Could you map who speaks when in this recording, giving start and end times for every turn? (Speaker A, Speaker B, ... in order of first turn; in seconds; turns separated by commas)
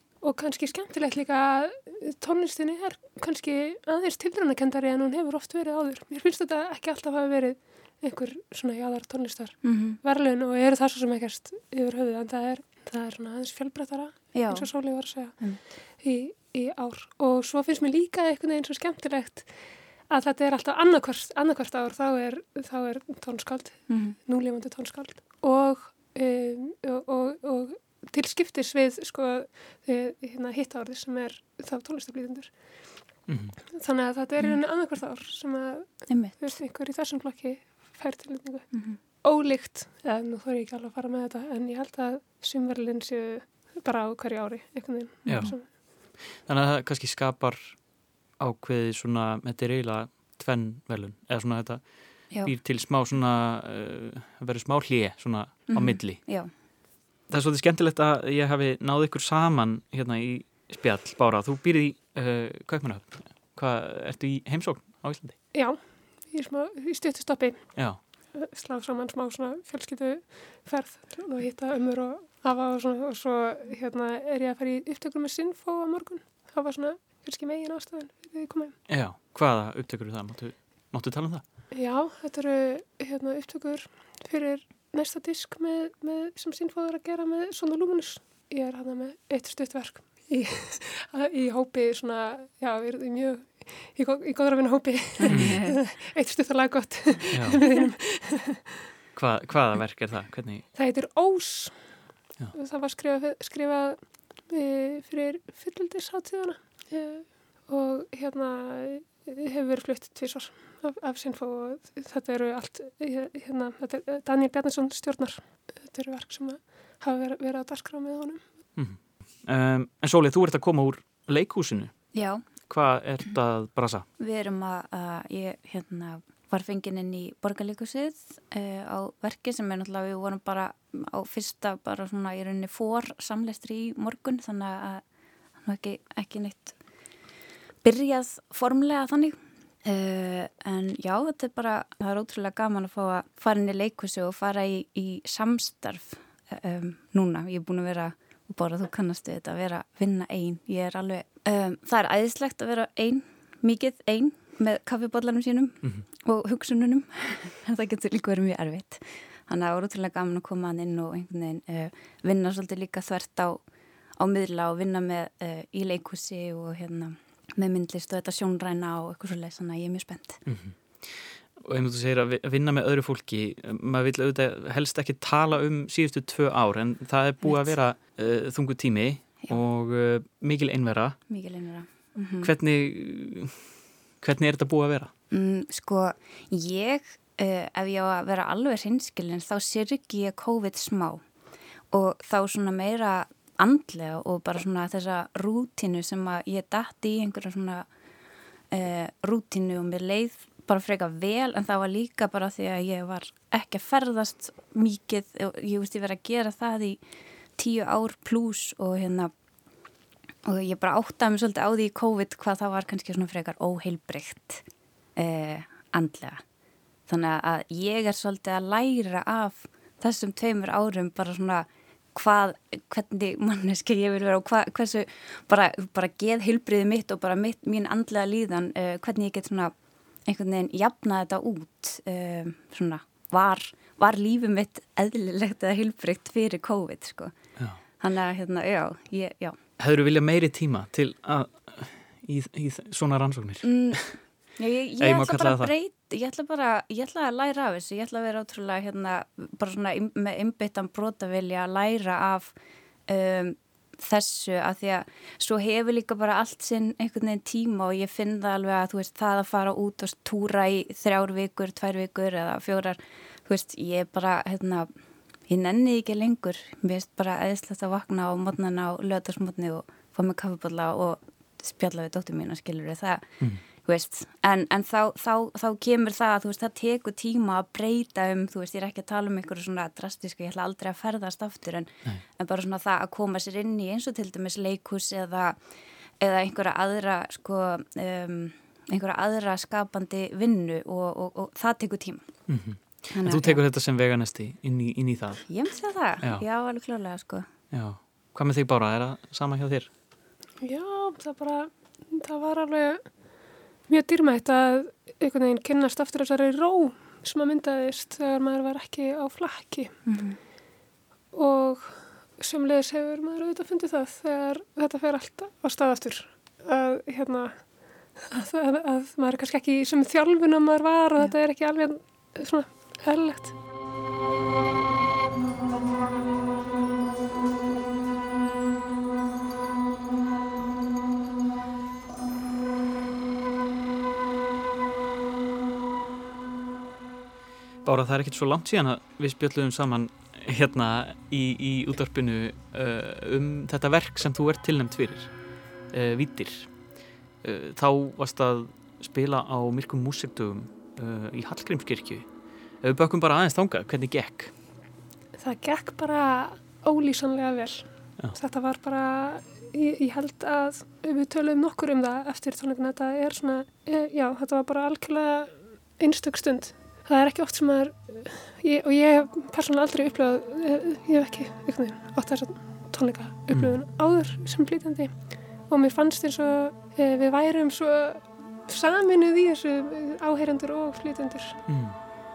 Speaker A: 0.2-19.5, Speaker B: 9.6-10.0, Speaker B: 14.3-15.6, Speaker A: 20.1-32.9, Speaker B: 23.9-24.2, Speaker C: 33.3-33.6, Speaker A: 33.7-45.6, Speaker B: 36.1-36.5, Speaker C: 45.3-47.8, Speaker C: 48.4-56.3, Speaker B: 55.7-56.5, Speaker C: 57.3-65.4, Speaker A: 65.5-78.8, Speaker C: 78.9-81.4, Speaker A: 81.7-98.6, Speaker B: 95.2-95.8, Speaker C: 95.3-95.6, Speaker C: 97.3-97.6, Speaker C: 99.2-100.7, Speaker A: 100.8-101.9, Speaker A: 102.5-118.4, Speaker C: 118.8-122.0, Speaker B: 122.1-122.4, Speaker C: 122.7-124.1, Speaker B: 124.2-135.0, Speaker B: 135.6-136.8, Speaker B: 137.8-163.6, Speaker B: 164.2-170.4, Speaker C: 170.5-181.2, Speaker B: 181.3-182.5, Speaker C: 182.4-183.6, Speaker C: 184.2-185.1, Speaker B: 185.3-191.2, Speaker B: 191.9-197.9, Speaker B: 198.7-207.0, Speaker B: 207.6-209.3, Speaker B: 210.5-214.7, Speaker B: 215.2-216.4, Speaker B: 217.1-229.7, Speaker B: 230.3-237.3, Speaker B: 238.0-239.6, Speaker C: 239.8-244.2, Speaker B: 243.6-252.6, Speaker C: 245.0-245.7, Speaker B: 253.1-264.9, Speaker B: 265.5-285.6, Speaker B: 286.2-292.2, Speaker C: 292.5-295.5, Speaker B: 293.1-293.6, Speaker B: 295.5-297.5, Speaker C: 297.7-299.9, Speaker A: 300.6-303.2, Speaker A: 303.9-310.0, Speaker B: 310.1-310.4, Speaker A: 311.3-323.6, Speaker C: 337.9-345.4, Speaker C: 345.9-346.8, Speaker C: 347.4-352.3, Speaker C: 352.8-354.5, Speaker A: 355.4-381.8, Speaker C: 381.7-382.0